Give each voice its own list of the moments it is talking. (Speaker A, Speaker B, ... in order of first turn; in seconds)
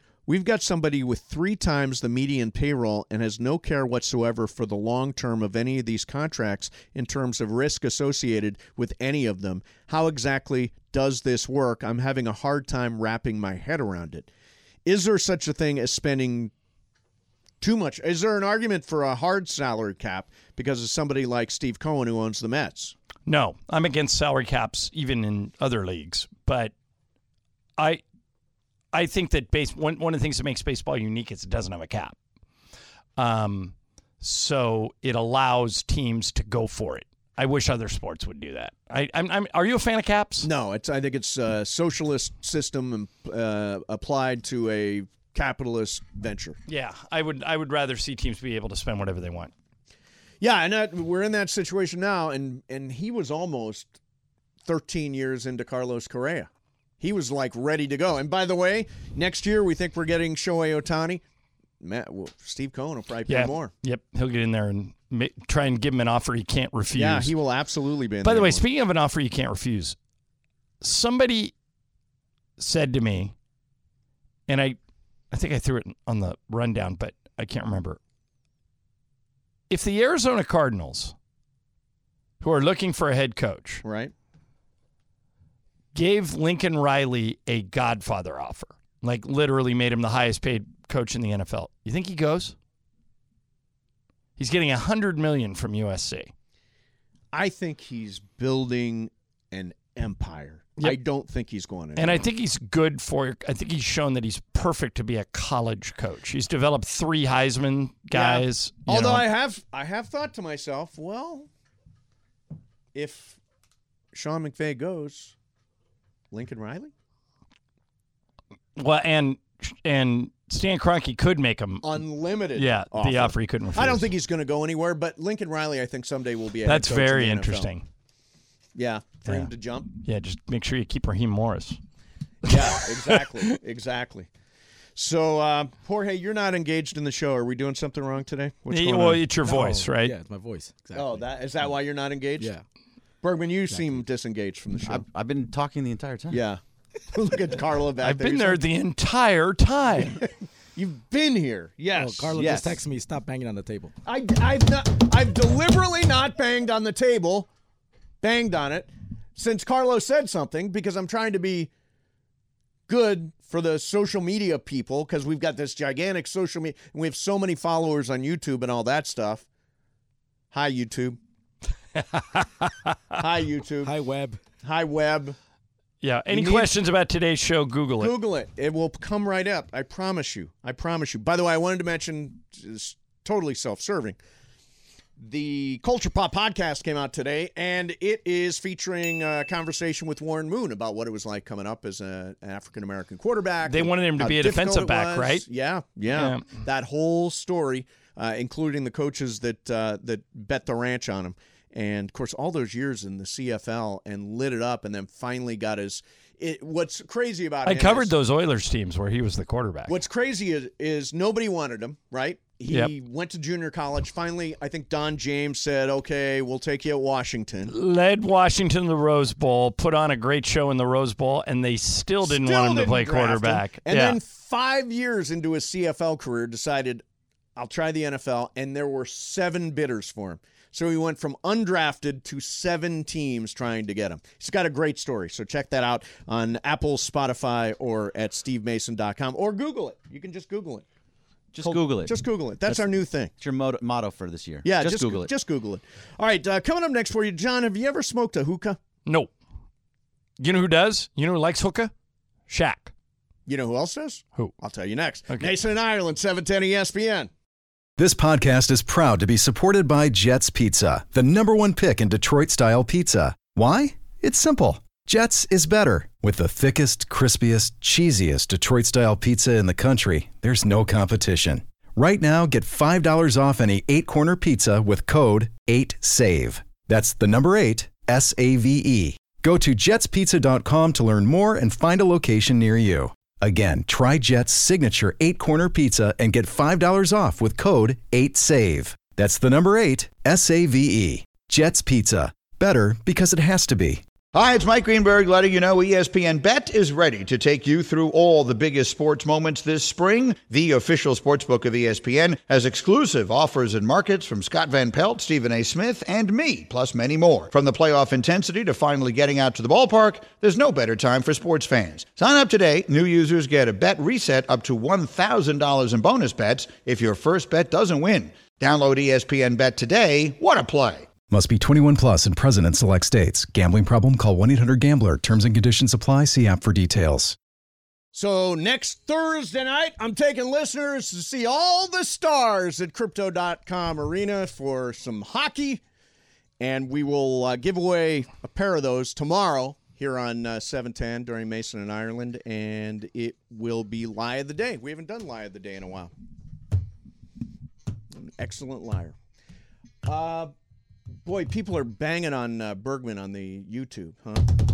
Speaker A: 0.3-14.3, 14.9-16.5, 17.6-22.9, 40.4-46.6, 50.4-53.9, 54.7-56.5, 57.0-61.2, 61.8-63.7, 66.9-68.6, 83.8-84.1, 97.3-102.2, 108.1-111.5, 112.9-113.4, 114.1-115.3, 116.3-116.9, 121.8-127.7, 128.8-129.9, 132.4-134.3, 135.0-139.3, 140.9-142.5, 143.2-145.0, 146.3-146.6, 147.1-148.6, 150.8-152.3, 154.1-157.5, 158.2-161.7, 162.9-169.4, 170.5-171.2, 173.2-173.9, 174.6-175.4, 176.3-176.7, 178.0-184.2, 185.2-208.1, 209.9-217.7, 222.2-227.0, 227.6-240.8, 241.6-243.3, 244.6-248.8, 253.5-257.3, 328.1-335.8, 336.6-346.1, 348.1-349.1, 350.1-350.5, 351.2-354.4
Speaker B: 23.3-26.7, 27.8-28.0, 28.9-32.2, 33.2-40.5, 46.7-49.5, 63.3-67.3, 68.2-70.0, 70.8-71.5, 72.6-73.3, 74.5-74.8, 75.3-78.0, 79.7-81.1, 82.4-83.8, 85.9-92.5, 94.4-96.3, 102.0-109.3, 118.8-122.0, 122.6-124.1, 126.7-127.8, 130.0-131.8, 132.5-133.5, 138.7-140.1, 148.0-150.2, 172.1-172.7, 176.0-178.1, 193.7-195.5, 196.1-196.4, 207.7-210.0, 217.7-224.2, 249.1-249.3, 250.4-251.9, 252.5-252.9
Speaker C: 139.5-141.3, 143.7-144.1, 151.9-153.9, 173.8-174.4
Speaker D: 144.9-146.4, 152.3-152.8, 241.5-245.3
Speaker E: 258.0-294.0, 321.3-327.4
Speaker F: 294.3-321.1